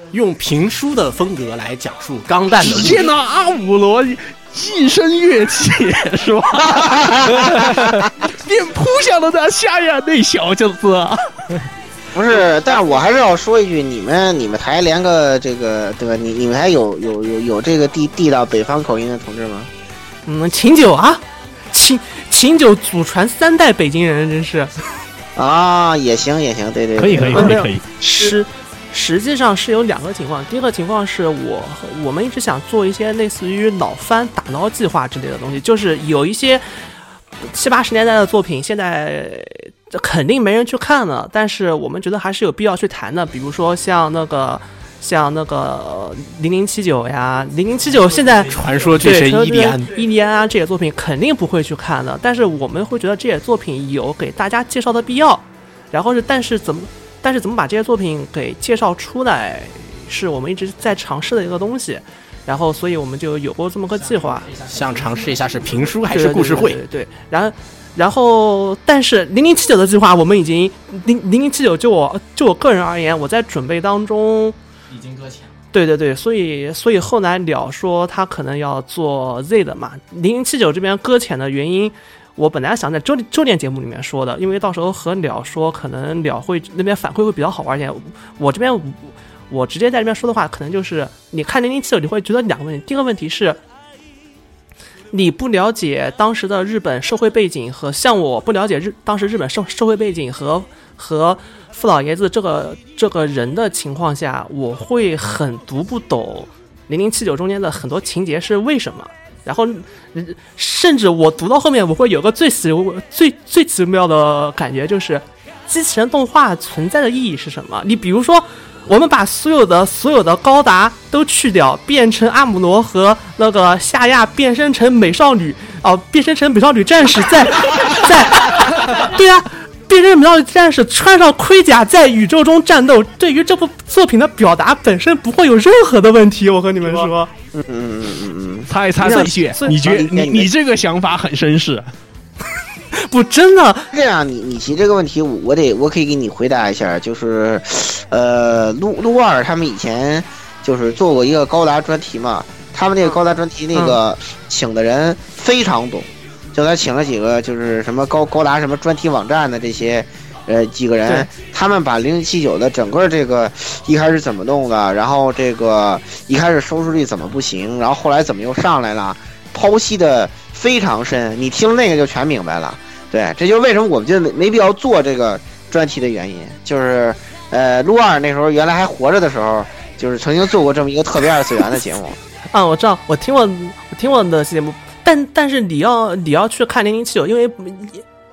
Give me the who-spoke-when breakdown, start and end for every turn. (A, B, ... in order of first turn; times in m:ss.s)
0:00.1-0:03.1 A
0:02.6-0:11.2 B
0:06.8-0:07.7 C
0:12.1-0:19.7 C
0:20.2-0:24.7 D
0:25.4-0:27.6 C
0:27.0-0:27.8 B
0:27.3-0:36.6 D
0:37.4-1:04.6 D
0:48.4-0:49.9 A
1:04.5-1:06.8 A
1:06.1-1:14.6 D
1:15.0-1:15.4 A
1:15.7-1:33.6 D
1:35.1-2:17.3 D
2:17.5-2:19.2 C
2:18.7-2:21.9 B
2:19.0-2:19.7 D
2:19.8-2:20.5 C
2:22.9-2:23.9 D
2:23.9-3:02.2 C
3:02.5-3:08.0 D